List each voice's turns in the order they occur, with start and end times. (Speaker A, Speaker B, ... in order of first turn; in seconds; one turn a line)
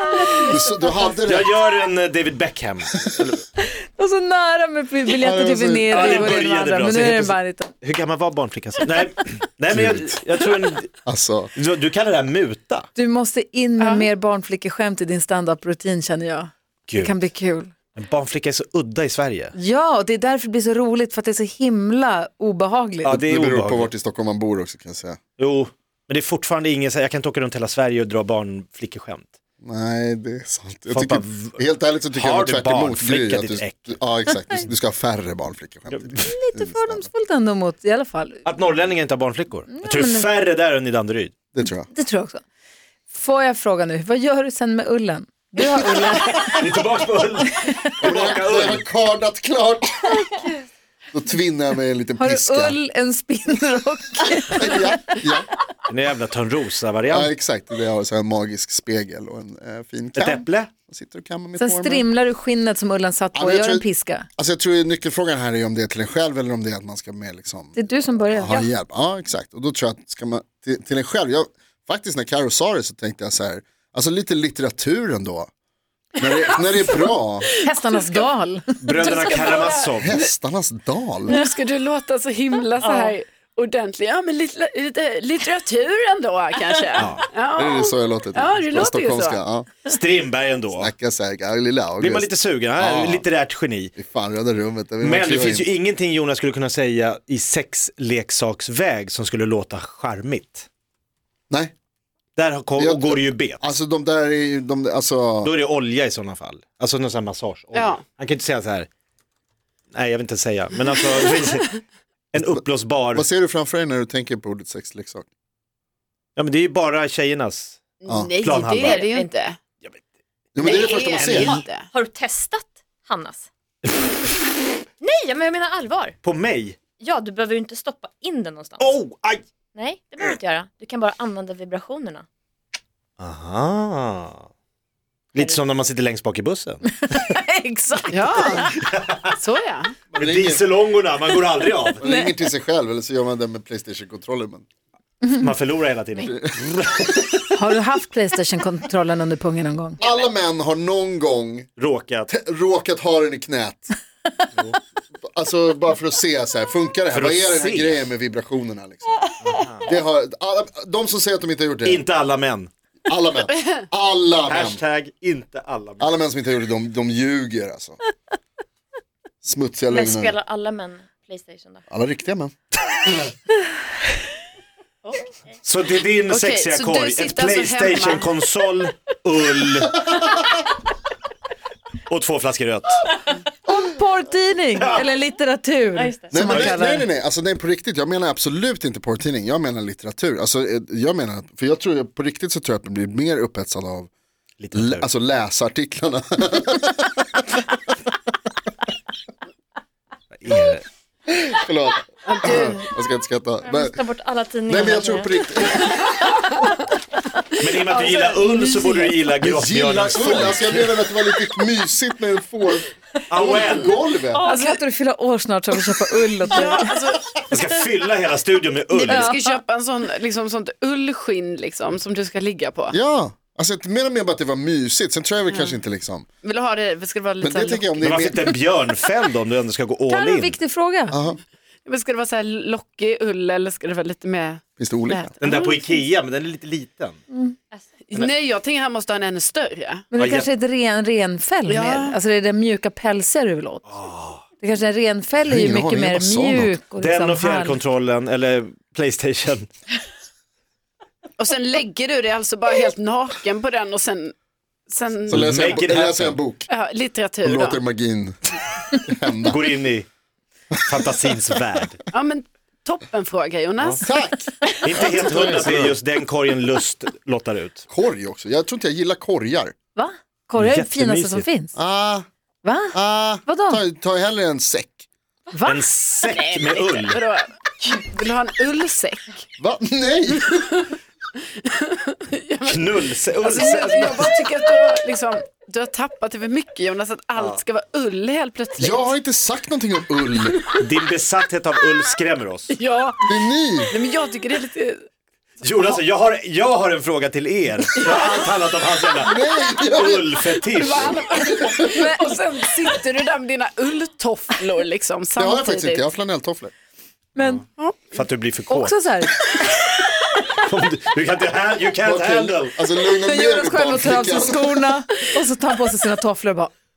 Speaker A: 0.4-1.5
Speaker B: 1.2-3.4
Speaker C: 3.6-7.7
Speaker A: 5.2-6.2
Speaker B: 5.9-10.9
Speaker A: 9.7-10.1
Speaker A: 11.1-11.5
Speaker B: 11.6-12.9
Speaker C: 12.9-17.7
Speaker D: 13.8-14.1
Speaker B: 16.9-17.1
Speaker B: 17.9-19.5
Speaker C: 19.5-23.1
Speaker B: 23.0-23.9
Speaker A: 23.1-25.2
Speaker B: 25.4-29.3
Speaker A: 29.6-37.1
Speaker B: 30.9-31.6
Speaker B: 32.1-34.0
Speaker B: 35.9-36.3
Speaker C: 36.2-38.5
Speaker B: 38.5-41.3
Speaker C: 39.7-40.3
Speaker A: 41.5-41.9
Speaker C: 41.9-42.4
Speaker C: 43.1-46.7
Speaker B: 46.4-48.8
Speaker A: 48.0-50.4
Speaker A: 51.1-52.8
Speaker C: 52.2-55.2
Speaker A: 54.5-55.5
Speaker B: 55.9-57.3
Speaker A: 57.1-62.0
Speaker B: 60.1-60.7
Speaker C: 61.6-64.3
Speaker A: 63.3-67.8
Speaker C: 67.8-68.7
Speaker A: 68.3-75.5
Speaker A: 76.2-77.5
Speaker D: 76.2-77.1
Speaker C: 77.6-78.6
Speaker D: 77.7-78.2
Speaker B: 78.8-80.2
Speaker D: 79.0-80.3
Speaker A: 80.0-81.4
Speaker D: 81.2-89.4
Speaker E: 82.8-83.1
Speaker B: 87.0-87.3
Speaker A: 87.5-89.8
Speaker B: 89.8-90.9
Speaker A: 90.8-93.2
Speaker B: 92.0-93.9
Speaker A: 94.0-95.7
Speaker B: 95.0-100.7
Speaker B: 102.3-103.7
Speaker A: 102.8-105.5
Speaker B: 105.4-108.9
Speaker D: 107.7-108.0
Speaker B: 109.9-111.8
Speaker B: 112.3-113.3
Speaker A: 112.3-115.2
Speaker B: 116.3-117.8
Speaker D: 118.0-119.6
Speaker B: 118.4-119.1
Speaker E: 118.9-119.3
Speaker A: 120.5-121.6
Speaker D: 120.6-121.9
Speaker B: 121.2-121.6
Speaker E: 121.4-123.5
Speaker E: 125.0-126.2
Speaker B: 126.2-126.8
Speaker E: 126.9-129.0
Speaker B: 128.8-129.4
Speaker E: 129.7-132.2
Speaker B: 133.2-134.4
Speaker B: 135.3-137.0
Speaker C: 137.0-138.7
Speaker D: 138.1-138.7
Speaker B: 138.7-139.4
Speaker D: 139.3-139.9
Speaker A: 140.1-140.7
Speaker B: 140.2-142.0
Speaker A: 142.0-144.6
Speaker C: 142.0-142.4
Speaker B: 145.3-147.3
Speaker A: 146.2-147.1
Speaker C: 147.5-150.0
Speaker A: 150.0-151.7
Speaker B: 151.8-152.3
Speaker A: 152.3-153.9
Speaker A: 155.3-159.3
Speaker B: 157.1-158.1
Speaker B: 159.4-160.0
Speaker A: 159.8-162.0
Speaker B: 161.8-162.7
Speaker A: 163.1-164.8
Speaker B: 164.4-166.1
Speaker A: 166.0-168.0
Speaker A: 169.4-170.3
Speaker E: 169.9-171.8
Speaker A: 171.9-172.5
Speaker B: 175.6-180.3
Speaker D: 176.3-178.3
Speaker B: 182.1-183.0
Speaker C: 183.6-187.1
Speaker E: 185.9-186.7
Speaker A: 186.3-194.1
Speaker B: 194.6-195.1
Speaker A: 194.7-197.8
Speaker B: 200.3-200.8
Speaker A: 201.3-204.0
Speaker D: 202.2-202.8
Speaker E: 203.6-206.3
Speaker A: 204.7-206.1
Speaker B: 207.6-211.0
Speaker D: 207.7-209.1
Speaker A: 209.4-214.4
Speaker B: 213.3-213.9
Speaker C: 214.4-216.9
Speaker D: 214.4-214.8
Speaker D: 216.5-217.3
Speaker B: 217.5-219.4
Speaker D: 218.9-222.9
Speaker C: 219.1-219.6
Speaker A: 222.9-226.2
Speaker D: 225.5-225.8
Speaker D: 226.4-228.1
Speaker A: 227.4-228.5
Speaker B: 228.0-230.6
Speaker C: 230.1-231.2
Speaker A: 231.1-231.4
Speaker D: 231.8-235.8
Speaker A: 234.8-235.3
Speaker B: 235.4-237.2
Speaker C: 237.3-237.6
Speaker D: 238.1-240.0
Speaker C: 240.1-243.9
Speaker B: 240.1-240.5
Speaker D: 241.7-242.2
Speaker B: 243.8-244.4
Speaker C: 244.6-247.8
Speaker A: 245.4-246.8
Speaker B: 247.0-249.7
Speaker D: 251.4-254.3
Speaker D: 254.9-255.8
Speaker A: 255.3-256.7
Speaker B: 255.3-256.4
Speaker D: 256.7-257.8
Speaker A: 257.4-259.7
Speaker B: 259.4-260.1
Speaker B: 260.8-262.0
Speaker D: 262.1-264.1
Speaker A: 264.0-265.9
Speaker B: 264.8-267.8
Speaker A: 267.9-269.7
Speaker C: 269.9-271.8
Speaker B: 270.6-271.5
Speaker A: 271.8-272.2
Speaker C: 272.6-273.8
Speaker A: 272.9-275.1
Speaker C: 275.5-275.8
Speaker B: 275.6-277.2
Speaker D: 276.2-279.4
Speaker A: 279.6-280.7
Speaker D: 280.7-289.1
Speaker B: 282.6-284.4
Speaker B: 287.4-287.6
Speaker A: 288.8-290.6
Speaker B: 290.8-292.8
Speaker D: 292.7-295.0
Speaker A: 293.3-293.9
Speaker B: 295.6-301.2
Speaker D: 298.0-298.4
Speaker A: 299.2-300.4
Speaker D: 300.6-306.0
Speaker A: 301.4-301.7
Speaker A: 305.4-306.7
Speaker C: 307.3-307.6
Speaker D: 307.8-308.1
Speaker B: 308.1-309.0
Speaker C: 308.7-309.6
Speaker B: 310.1-312.7
Speaker A: 312.0-314.9
Speaker C: 313.1-316.7